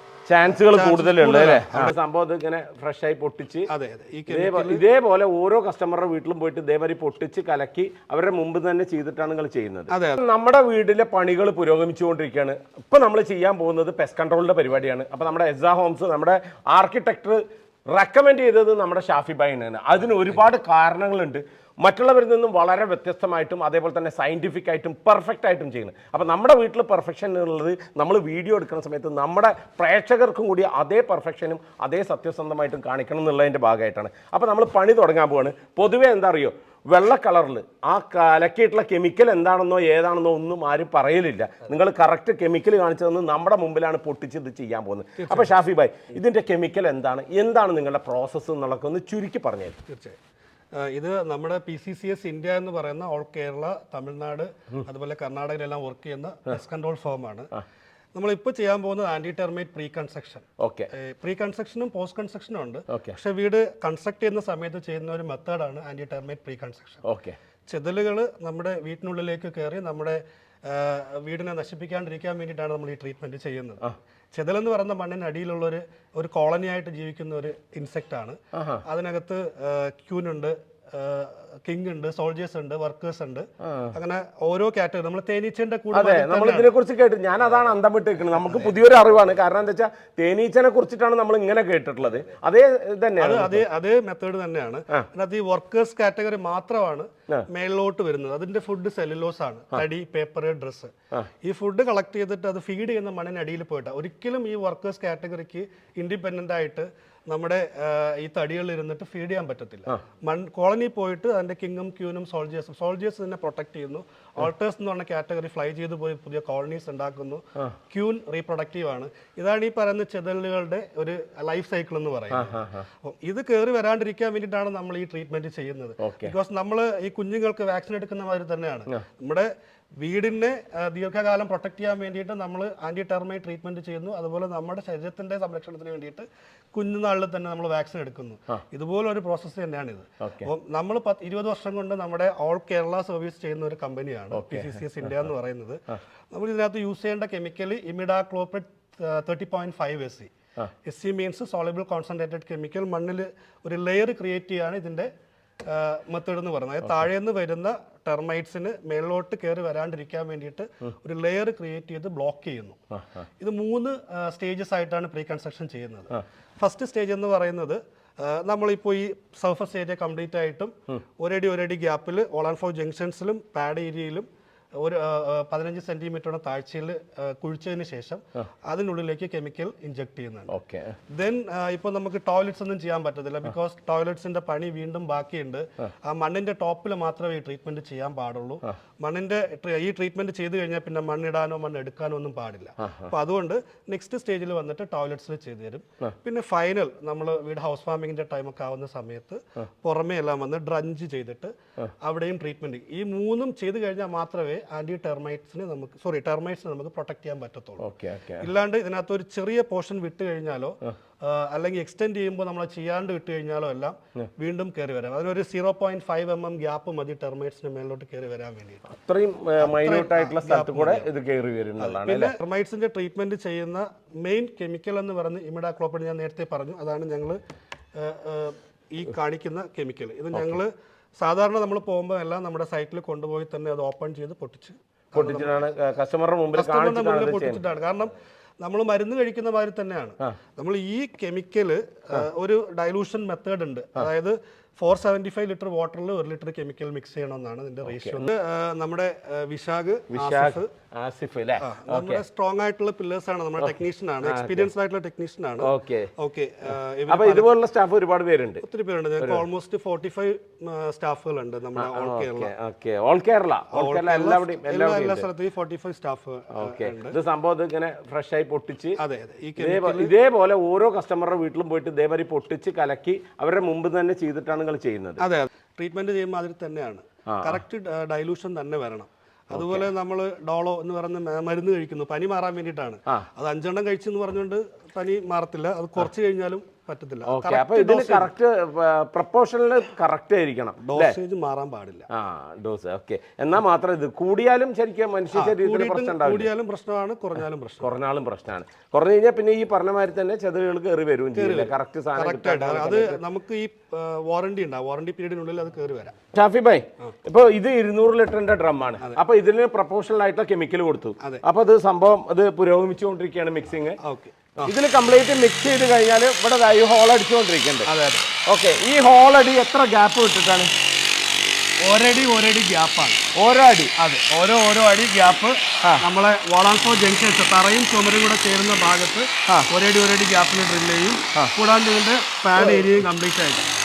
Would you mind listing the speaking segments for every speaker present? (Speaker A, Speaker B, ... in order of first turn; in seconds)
Speaker A: 0.3-3.7, 4.3-49.8, 60.6-60.9, 62.9-63.2, 67.0-67.4, 78.5-78.8, 83.6-83.9, 85.9-93.7, 122.3-122.8, 126.0-126.3, 140.2-140.5, 144.3-144.8, 180.5-180.9, 207.8-208.5, 218.9-222.3, 230.3-230.6, 235.2-237.6, 247.9-248.2, 250.1-252.2, 253.6-254.7, 255.6-256.1, 257.1-258.6, 261.8-265.3, 266.6-269.0, 269.6-275.2, 277.3-277.6, 279.5-279.9, 287.3-291.1, 292.1-296.5, 297.8-303.2, 306.3-314.0, 314.6-317.9, 318.5-320.7, 323.4-323.9, 332.6-332.9
Speaker B: 0.6-1.9, 3.7-4.8, 9.9-10.2, 45.2-45.6, 49.9-50.2, 50.8-57.5, 58.1-67.0, 67.7-73.8, 74.3-86.7, 88.4-88.7, 93.2-100.9, 101.4-145.8, 146.3-150.3, 150.8-155.1, 155.7-162.8, 163.4-174.3, 174.8-180.5, 181.1-207.8, 208.4-218.8, 219.6-221.1, 221.8-227.4, 228.0-235.6, 236.5-250.7, 251.6-257.5, 258.6-262.5, 263.7-267.2, 269.0-270.1, 275.2-288.3, 290.8-292.1, 295.3-297.9, 301.4-306.1, 314.0-314.7, 317.9-318.3, 321.8-323.2, 324.0-333.7